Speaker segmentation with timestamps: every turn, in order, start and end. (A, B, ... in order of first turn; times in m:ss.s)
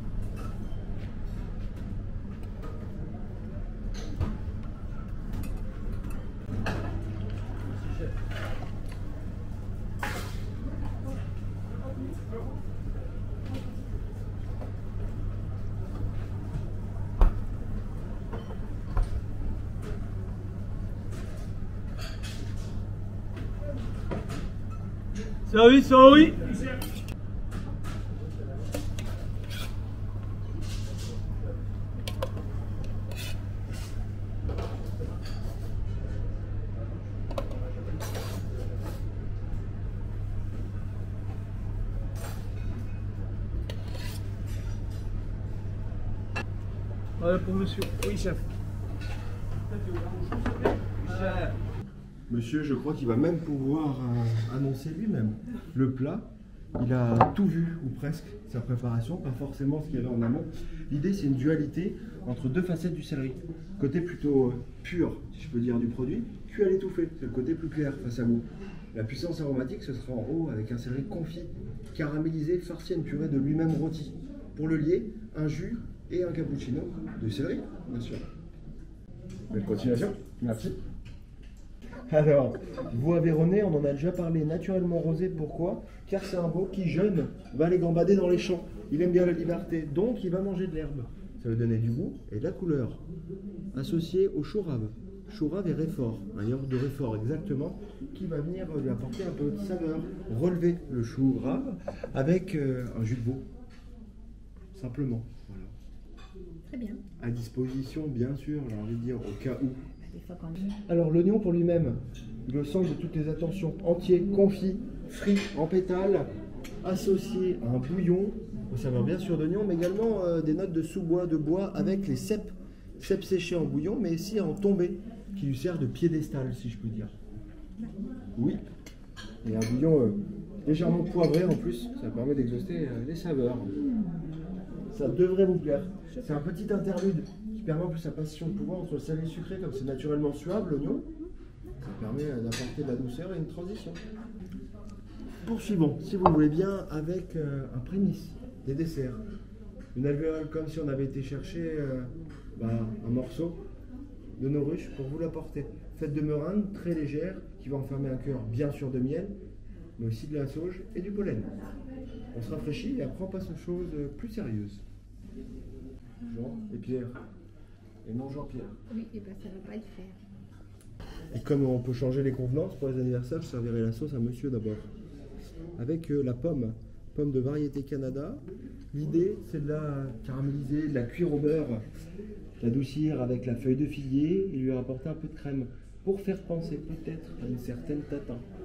0:25.5-0:26.5 A
0:47.2-0:48.4 A
0:50.0-0:51.5 A
0:52.3-1:18.2 B
1:19.5-1:20.8 B
1:22.1-1:33.0 B
1:33.7-1:43.4 B
1:44.7-1:45.7 B
1:46.7-1:47.0 C
1:47.2-1:49.8 B
1:50.1-1:50.8 C
1:50.9-1:56.3 B
1:56.8-2:07.1 B
2:09.4-2:13.7 B
2:14.9-2:21.1 B
2:21.8-2:24.0 B
2:25.4-2:29.2 B
2:29.9-2:33.6 B
2:34.4-2:39.3 B
2:40.0-2:41.5 B
2:42.3-2:44.8 B
2:46.2-2:47.2 B
2:48.0-2:48.8 B
2:48.9-2:50.2 C
2:51.3-2:54.9 B
2:55.8-3:01.8 B
3:02.6-3:08.4 B